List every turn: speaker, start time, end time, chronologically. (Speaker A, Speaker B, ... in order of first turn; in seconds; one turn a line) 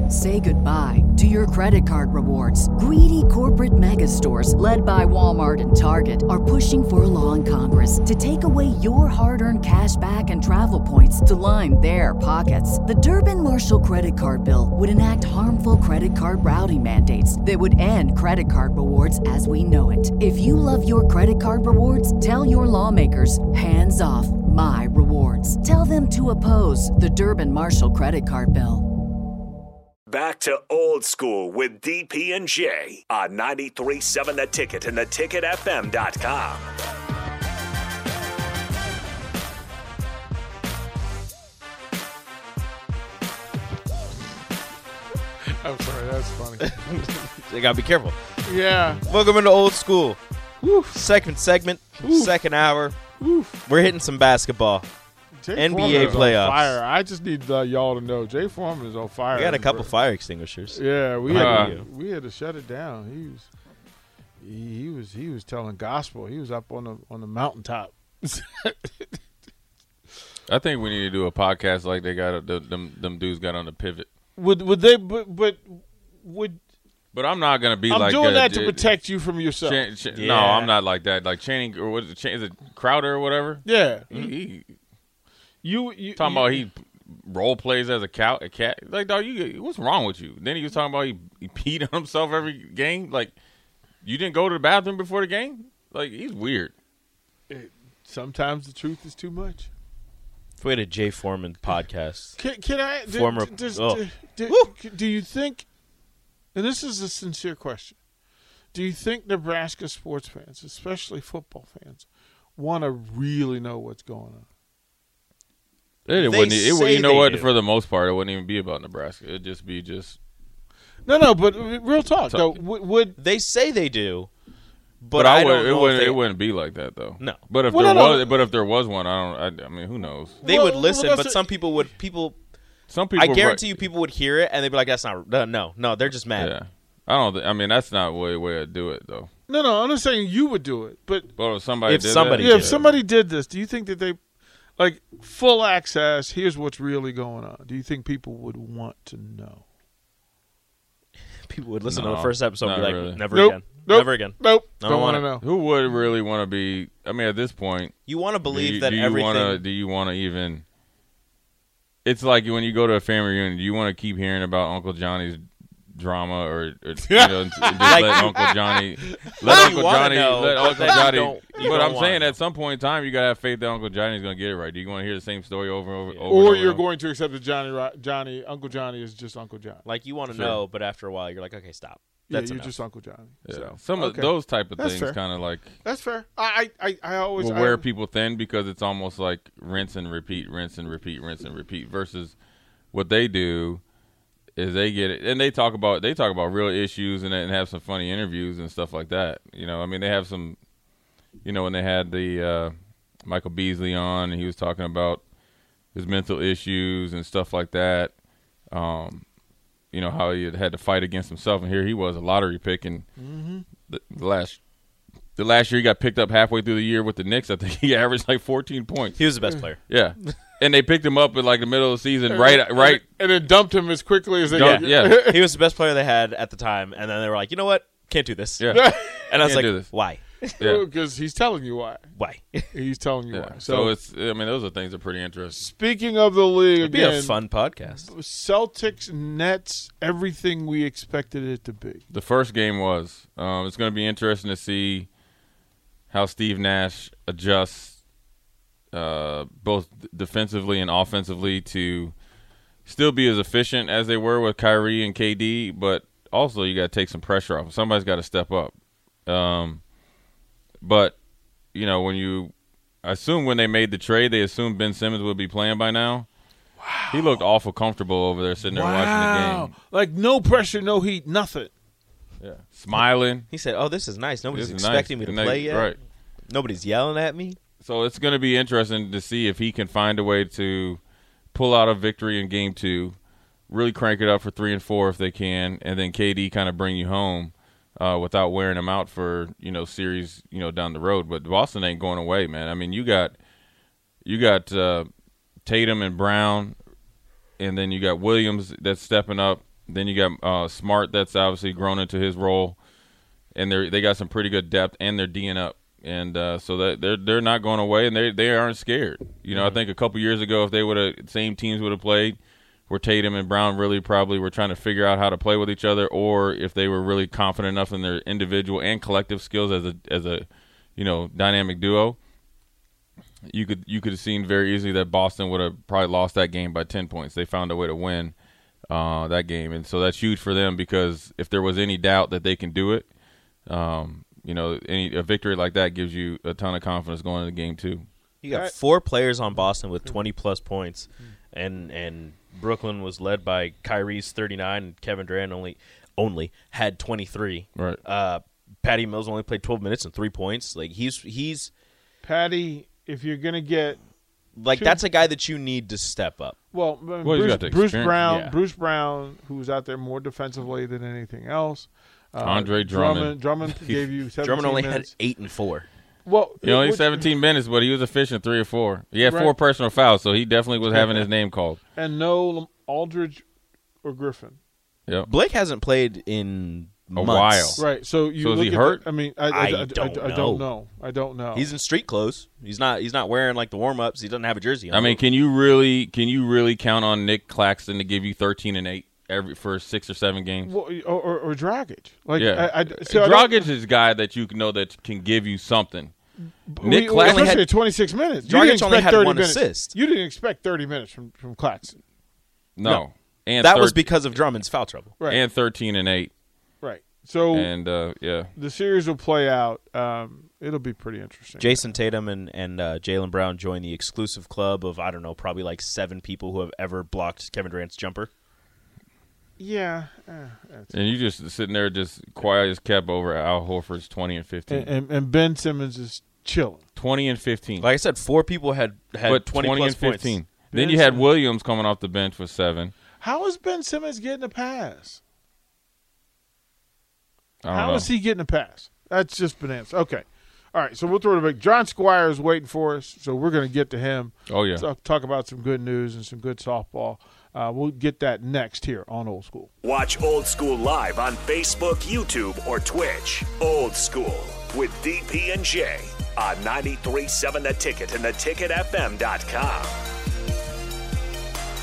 Speaker A: 0.1-28.8
Speaker B: 30.1-36.7
Speaker C: 45.4-46.8
Speaker D: 46.8-48.3
Speaker C: 48.4-49.0
Speaker D: 49.1-50.2
Speaker C: 50.6-51.0
Speaker D: 50.9-53.0
Speaker C: 52.0-52.4
Speaker C: 53.2-53.6
Speaker D: 53.6-54.9
Speaker C: 55.4-59.9
Speaker D: 55.5-56.8
Speaker E: 55.9-56.2
Speaker D: 59.3-61.9
Speaker C: 60.7-63.5
Speaker E: 61.3-61.7
Speaker C: 64.4-69.1
Speaker E: 70.5-74.1
Speaker C: 74.4-76.6
Speaker E: 77.1-78.9
Speaker C: 77.9-79.8
Speaker E: 79.6-84.7
Speaker D: 80.1-80.8
Speaker C: 83.6-84.1
Speaker C: 85.6-86.7
Speaker E: 86.2-93.3
Speaker E: 94.0-96.7
Speaker C: 97.5-99.7
Speaker D: 100.6-102.3
Speaker C: 102.4-105.7
Speaker D: 103.1-104.7
Speaker C: 106.5-108.0
Speaker C: 108.7-114.4
Speaker E: 116.0-120.2
Speaker D: 116.1-117.5
Speaker C: 121.0-123.1
Speaker E: 122.3-122.6
Speaker D: 123.2-124.3
Speaker D: 125.0-126.2
Speaker E: 125.1-130.4
Speaker C: 127.7-128.3
Speaker C: 130.4-131.4
Speaker D: 130.4-132.4
Speaker E: 132.9-133.8
Speaker D: 133.2-136.5
Speaker E: 136.3-139.3
Speaker C: 139.5-141.3
Speaker E: 141.4-142.9
Speaker D: 141.8-142.8
Speaker C: 142.3-144.2
Speaker C: 144.8-149.6
Speaker D: 151.4-155.3
Speaker E: 151.9-153.2
Speaker C: 153.3-155.4
Speaker E: 155.4-157.9
Speaker D: 158.1-159.6
Speaker E: 158.5-160.6
Speaker E: 162.0-176.8
Speaker C: 167.0-169.5
Speaker D: 167.8-168.3
Speaker D: 169.4-172.3
Speaker D: 176.1-176.4
Speaker C: 176.3-179.8
Speaker D: 179.8-182.8
Speaker E: 180.3-180.6
Speaker C: 182.3-185.2
Speaker E: 183.4-185.7
Speaker C: 185.8-187.8
Speaker E: 187.4-192.3
Speaker E: 192.9-193.8
Speaker E: 194.6-200.6
Speaker E: 201.4-202.7
Speaker E: 203.2-205.2
Speaker E: 205.9-208.1
Speaker E: 208.7-209.2
Speaker E: 209.9-213.0
Speaker C: 213.2-213.7
Speaker E: 213.9-214.6
Speaker E: 215.4-219.3
Speaker D: 219.2-219.8
Speaker E: 219.9-223.0
Speaker C: 222.3-225.5
Speaker E: 224.5-225.3
Speaker D: 224.5-230.4
Speaker E: 228.6-228.9
Speaker C: 228.7-229.3
Speaker E: 229.4-229.9
Speaker C: 230.6-232.1
Speaker E: 230.6-230.8
Speaker D: 232.2-232.7
Speaker C: 232.7-233.9
Speaker E: 233.3-235.7
Speaker C: 235.6-237.4
Speaker D: 236.8-238.1
Speaker C: 238.0-242.0
Speaker E: 242.1-245.1
Speaker E: 246.1-248.0
Speaker E: 248.9-252.1
Speaker E: 252.8-258.7
Speaker E: 259.2-259.8
Speaker E: 260.8-261.1
Speaker E: 261.7-266.2
Speaker C: 266.8-267.4
Speaker E: 267.1-269.7
Speaker C: 268.6-271.7
Speaker E: 272.4-273.4
Speaker D: 273.5-275.9
Speaker E: 274.5-276.0
Speaker D: 276.5-277.6
Speaker E: 277.8-281.0
Speaker E: 281.5-283.2
Speaker E: 283.7-293.3
Speaker E: 294.2-295.1
Speaker E: 295.6-296.8
Speaker E: 297.6-302.8
Speaker E: 303.5-312.4
Speaker D: 309.5-309.8
Speaker E: 312.9-322.2
Speaker E: 323.5-328.3
Speaker E: 328.9-333.1
Speaker E: 333.7-338.1
Speaker D: 338.4-351.7
Speaker C: 352.2-354.0
Speaker D: 354.6-356.6
Speaker C: 354.7-355.0
Speaker C: 356.7-365.1
Speaker E: 357.2-358.2
Speaker D: 358.2-358.5
Speaker E: 362.4-364.0
Speaker D: 364.4-365.9
Speaker C: 366.2-367.3
Speaker E: 366.6-371.8
Speaker C: 369.2-369.5
Speaker C: 370.8-371.3
Speaker C: 371.9-373.4
Speaker C: 374.0-374.6
Speaker D: 375.2-377.8
Speaker E: 377.1-377.8
Speaker C: 377.8-381.7
Speaker E: 378.4-379.0
Speaker D: 379.5-380.7
Speaker D: 381.5-385.2
Speaker E: 384.9-390.7
Speaker C: 390.6-393.7
Speaker E: 392.3-396.1
Speaker C: 396.7-401.9
Speaker E: 396.8-397.6
Speaker D: 397.2-397.6
Speaker D: 398.4-399.9
Speaker E: 402.8-404.0
Speaker D: 403.6-405.1
Speaker E: 405.3-406.3
Speaker C: 406.8-407.7
Speaker E: 407.5-408.5
Speaker C: 408.5-411.9
Speaker D: 411.6-418.3
Speaker C: 419.6-421.0
Speaker E: 420.9-424.9
Speaker C: 424.7-426.8
Speaker E: 426.9-427.9
Speaker D: 427.8-430.4
Speaker E: 429.2-432.9
Speaker C: 430.7-431.3
Speaker C: 433.2-435.2
Speaker E: 437.6-438.1
Speaker C: 437.6-449.7
Speaker E: 444.5-444.8
Speaker B: 449.8-459.9